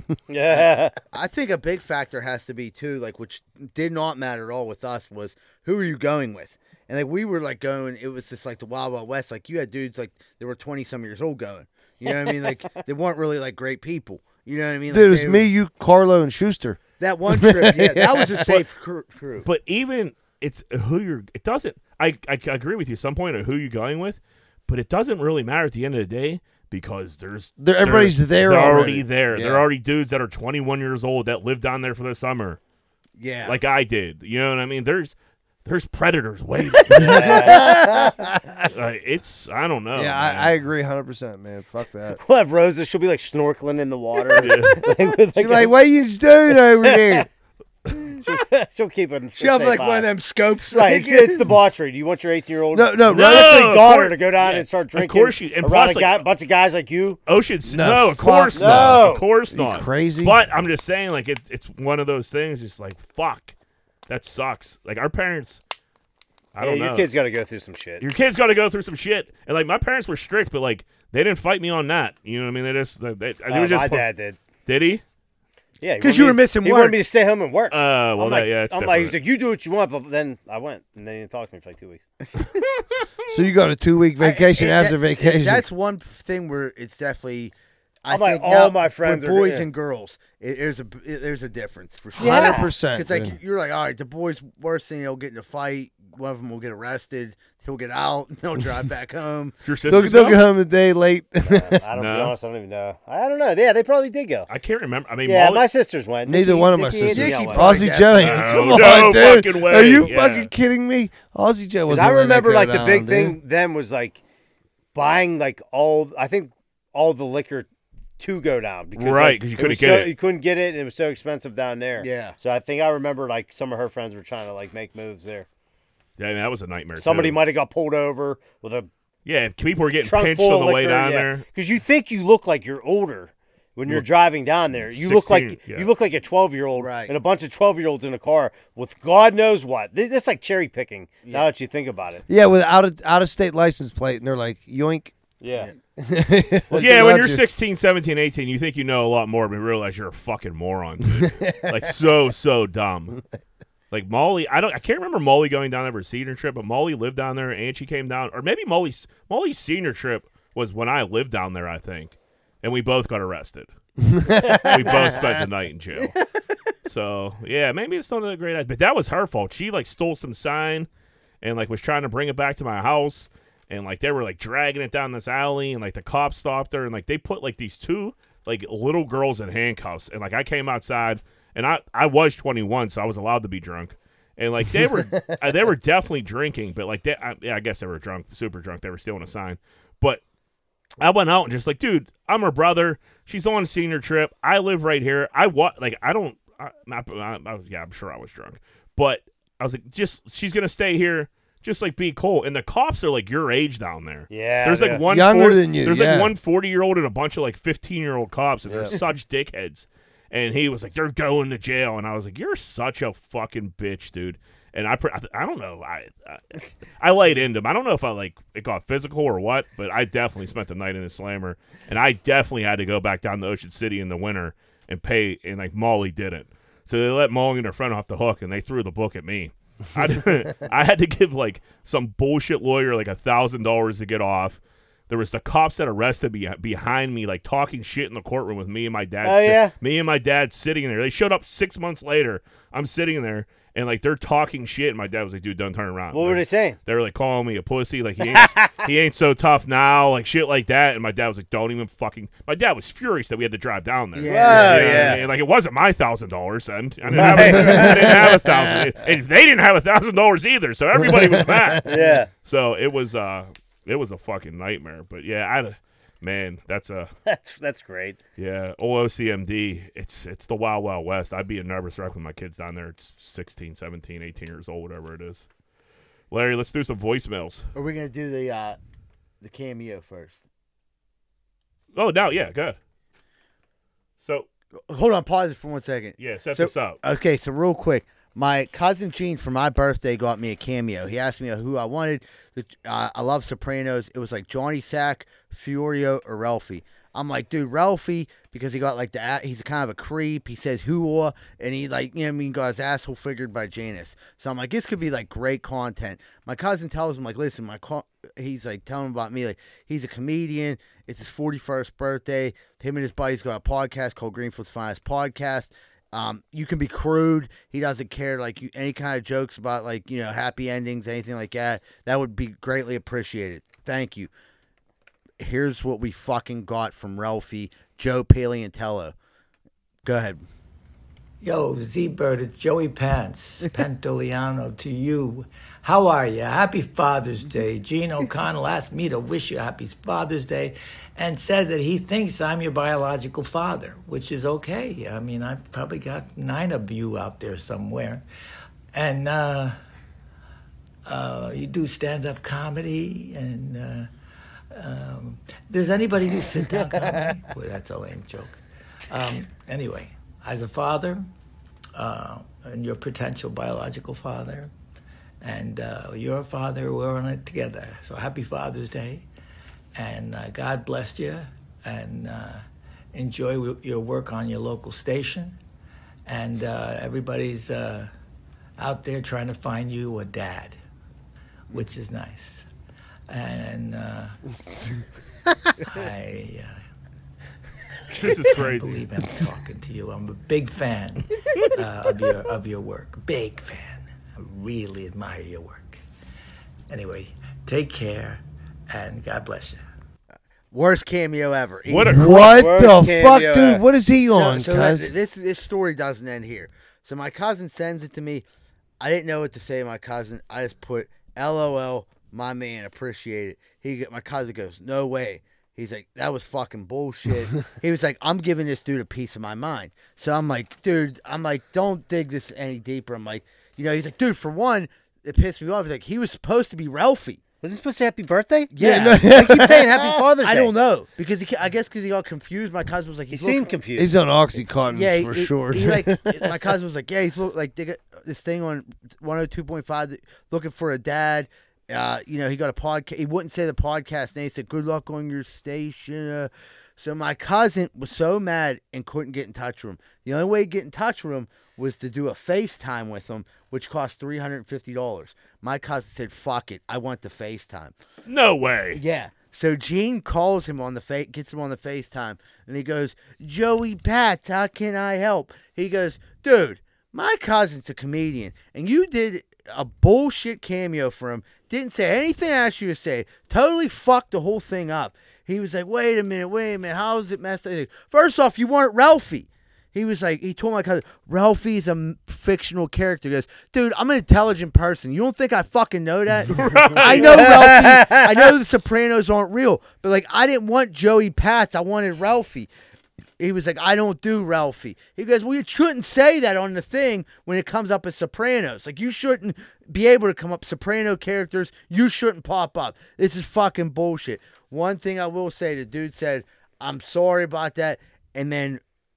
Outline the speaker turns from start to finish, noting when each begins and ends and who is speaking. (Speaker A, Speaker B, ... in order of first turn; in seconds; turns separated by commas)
Speaker A: 0.3-0.9, Speaker B: 1.1-15.5, Speaker C: 14.9-18.6, Speaker B: 17.0-19.5, Speaker D: 19.4-32.6, Speaker C: 27.6-29.6, Speaker B: 33.2-33.6, Speaker D: 33.4-35.1, Speaker D: 35.6-37.5, Speaker C: 36.9-38.4, Speaker A: 37.0-37.6, Speaker B: 37.5-38.4, Speaker D: 38.7-40.5, Speaker C: 39.9-42.2, Speaker A: 42.2-45.7, Speaker D: 44.4-44.9, Speaker C: 45.4-47.3, Speaker A: 46.5-47.3, Speaker A: 48.2-50.1, Speaker B: 49.4-51.5, Speaker A: 50.7-57.2, Speaker C: 52.7-53.9, Speaker D: 53.1-56.2, Speaker D: 57.2-63.5, Speaker C: 57.6-60.4, Speaker A: 58.5-59.3, Speaker D: 64.1-65.6, Speaker D: 66.5-67.1, Speaker A: 66.6-68.0, Speaker D: 68.0-74.1, Speaker A: 73.5-74.4, Speaker D: 74.7-75.0, Speaker A: 75.8-82.0, Speaker B: 76.0-77.0, Speaker D: 77.7-79.1, Speaker C: 83.3-85.7, Speaker B: 84.2-87.5, Speaker B: 88.0-99.6, Speaker A: 88.1-89.7, Speaker C: 92.2-93.4, Speaker A: 92.2-92.7, Speaker D: 99.6-100.5, Speaker C: 99.9-101.8, Speaker A: 101.4-104.5, Speaker D: 102.0-102.3, Speaker D: 104.5-105.6, Speaker A: 105.2-107.9, Speaker C: 106.2-113.4, Speaker B: 107.1-109.0, Speaker D: 108.1-110.5, Speaker A: 111.9-114.2, Speaker A: 114.9-117.7, Speaker A: 118.2-125.5, Speaker D: 119.0-120.1, Speaker B: 122.0-122.4, Speaker D: 126.2-127.4, Speaker A: 127.0-128.9, Speaker D: 129.2-131.4, Speaker A: 130.0-142.2, Speaker D: 134.7-135.9, Speaker B: 136.8-137.1, Speaker C: 142.3-145.1, Speaker A: 145.4-145.7, Speaker C: 146.0-147.4, Speaker A: 146.7-147.1, Speaker D: 146.8-153.2, Speaker C: 151.2-151.6, Speaker D: 153.9-163.7, Speaker C: 164.1-165.3, Speaker A: 164.4-165.1, Speaker D: 164.6-166.1, Speaker D: 166.9-170.9, Speaker D: 171.4-190.2, Speaker D: 191.0-267.1, Speaker A: 204.3-205.0, Speaker C: 205.1-206.3, Speaker C: 208.7-208.9, Speaker A: 239.2-239.7, Speaker A: 246.1-246.8, Speaker A: 248.3-248.9, Speaker B: 254.1-255.3, Speaker A: 254.3-255.2, Speaker A: 257.2-258.4, Speaker C: 257.4-258.9, Speaker C: 261.0-261.9, Speaker A: 261.9-262.3, Speaker A: 267.2-268.2, Speaker D: 268.4-275.4, Speaker D: 276.3-277.6, Speaker B: 277.7-278.8, Speaker B: 279.4-280.4, Speaker D: 281.9-282.8, Speaker D: 284.2-284.5, Speaker B: 284.9-324.3, Speaker D: 286.2-287.0, Speaker B: 325.4-329.1, Speaker B: 330.1-330.4, Speaker E: 331.4-348.2, Speaker E: 348.9-349.8, Speaker E: 351.1-354.1, Speaker E: 354.7-361.2, Speaker E: 361.9-364.7, Speaker E: 365.4-369.2, Speaker E: 369.9-375.6, Speaker E: 376.2-378.1, Speaker E: 378.8-380.8, Speaker E: 381.7-382.6, Speaker E: 383.3-384.4, Speaker E: 385.8-386.8, Speaker D: 388.1-389.0, Speaker E: 388.2-396.0, Speaker E: 396.9-399.8, Speaker B: 400.7-402.6, Speaker D: 401.9-402.3, Speaker C: 402.0-405.1, Speaker A: 402.3-403.9, Speaker B: 404.3-408.4, Speaker B: 409.0-427.4, Speaker A: 427.6-430.7, Speaker B: 428.7-429.7, Speaker C: 428.8-430.2, Speaker B: 430.4-433.7, Speaker A: 433.3-434.1, Speaker C: 433.9-436.6, Speaker B: 434.9-457.9, Speaker D: 458.2-459.0, Speaker B: 458.9-492.7, Speaker D: 486.5-487.7, Speaker A: 487.0-488.3, Speaker B: 493.4-508.8